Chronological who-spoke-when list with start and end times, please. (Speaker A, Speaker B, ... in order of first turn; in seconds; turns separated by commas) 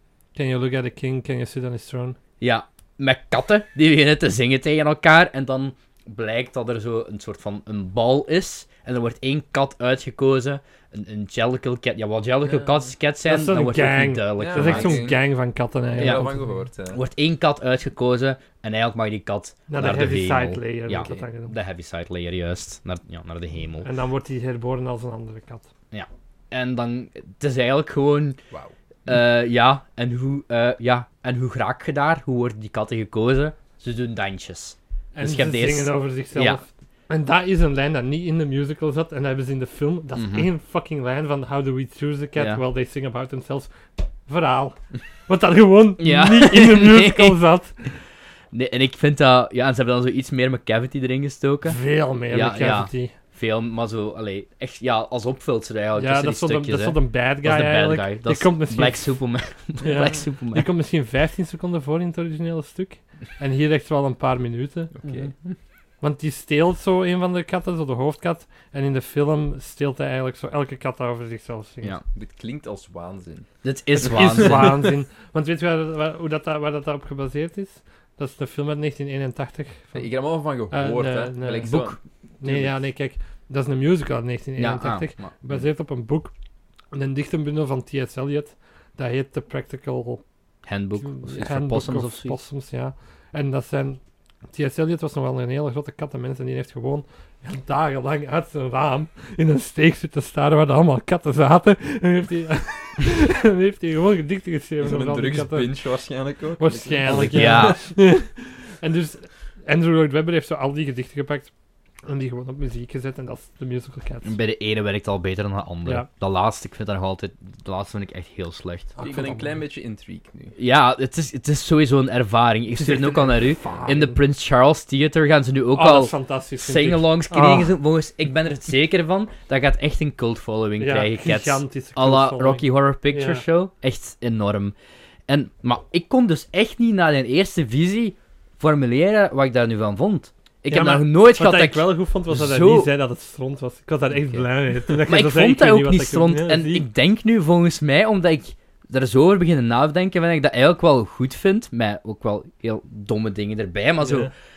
Speaker A: 0.3-2.2, Speaker B: 2.4-15.1, Speaker A: 13.2-16.6, Speaker C: 14.4-15.2, Speaker C: 15.9-17.0, Speaker B: 16.0-16.3, Speaker B: 16.9-23.9, Speaker A: 19.7-21.5, Speaker A: 23.8-25.7, Speaker B: 25.9-28.4, Speaker B: 29.1-36.6, Speaker A: 35.1-43.8, Speaker B: 40.1-40.5, Speaker B: 42.4-42.6, Speaker A: 44.3-47.8, Speaker B: 46.0-47.4, Speaker B: 48.5-60.7, Speaker A: 51.7-53.1, Speaker A: 56.0-59.1, Speaker A: 59.8-64.9, Speaker C: 64.9-65.3, Speaker B: 65.0-65.3, Speaker A: 66.0-72.0, Speaker C: 72.1-73.5, Speaker B: 73.6-74.8, Speaker A: 74.0-80.1, Speaker C: 79.9-82.8, Speaker A: 80.7-81.8, Speaker B: 81.6-82.0, Speaker A: 82.4-86.3, Speaker B: 84.6-85.3, Speaker A: 86.9-90.2, Speaker B: 90.7-92.4, Speaker A: 91.0-94.0, Speaker A: 94.5-105.7, Speaker C: 104.8-107.8, Speaker A: 106.6-111.5, Speaker B: 107.1-107.9, Speaker A: 112.1-114.3, Speaker B: 114.2-119.0, Speaker A: 119.0-119.6, Speaker C: 119.0-120.6, Speaker B: 120.6-134.8, Speaker A: 122.8-124.2, Speaker A: 125.8-127.7, Speaker A: 130.8-133.4, Speaker B: 135.3-142.9, Speaker A: 140.7-146.9, Speaker B: 145.0-154.3, Speaker A: 154.0-154.3